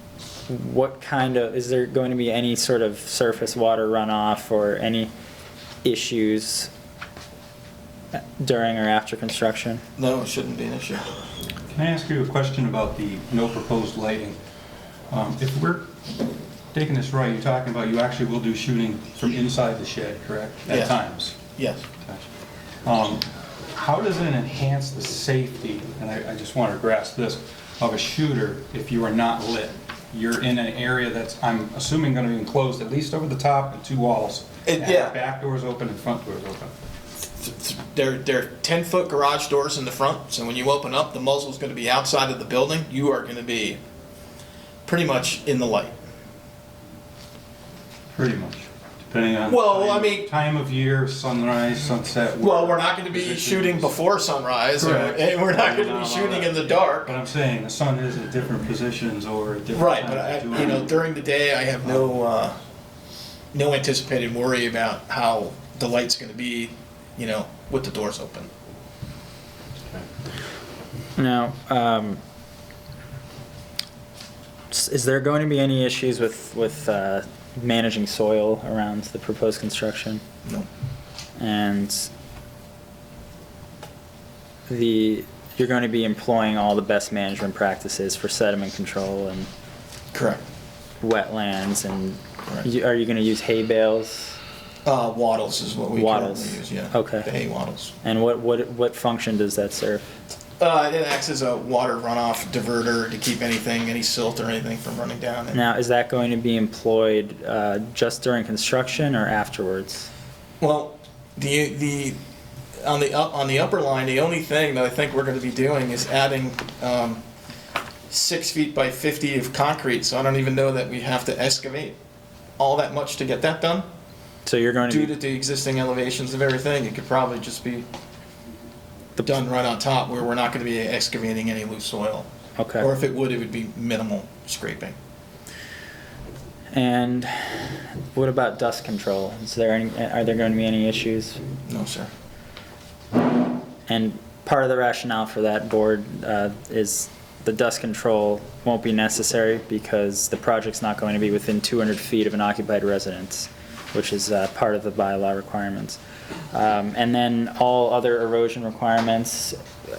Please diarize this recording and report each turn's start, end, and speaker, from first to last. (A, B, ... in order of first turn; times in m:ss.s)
0:00.5-0:05.1 A
0:05.8-0:06.7 A
0:08.2-0:09.8 A
0:10.0-0:11.1 B
0:11.7-0:14.4 C
0:15.1-0:15.9 C
0:16.7-0:21.4 C
0:20.7-0:20.9 B
0:21.6-0:21.8 B
0:22.8-0:36.7 C
0:34.6-0:35.2 B
0:37.4-0:43.8 B
0:44.8-0:45.9 B
0:48.1-0:53.9 C
0:49.4-0:50.3 B
0:52.4-0:57.1 B
0:54.8-1:00.8 C
0:59.7-1:02.6 B
1:01.8-1:02.1 C
1:03.5-1:08.5 B
1:11.2-1:12.2 A
1:14.7-1:20.2 A
1:21.4-1:22.1 A
1:24.7-1:29.5 A
1:30.1-1:30.4 B
1:31.0-1:34.4 A
1:34.8-1:37.9 B
1:35.9-1:37.3 A
1:38.0-1:40.1 A
1:40.6-1:45.6 B
1:45.5-1:50.1 A
1:50.6-1:52.2 B
1:52.8-1:57.2 B
1:58.1-2:02.0 B
2:02.6-2:03.8 B
2:04.4-2:05.1 A
2:04.9-2:07.8 B
2:09.2-2:12.3 B
2:12.6-2:12.9 A
2:12.8-2:15.0 B
2:16.7-2:21.4 A
2:21.6-2:22.1 B
2:23.9-2:36.0 A
2:36.5-2:39.6 A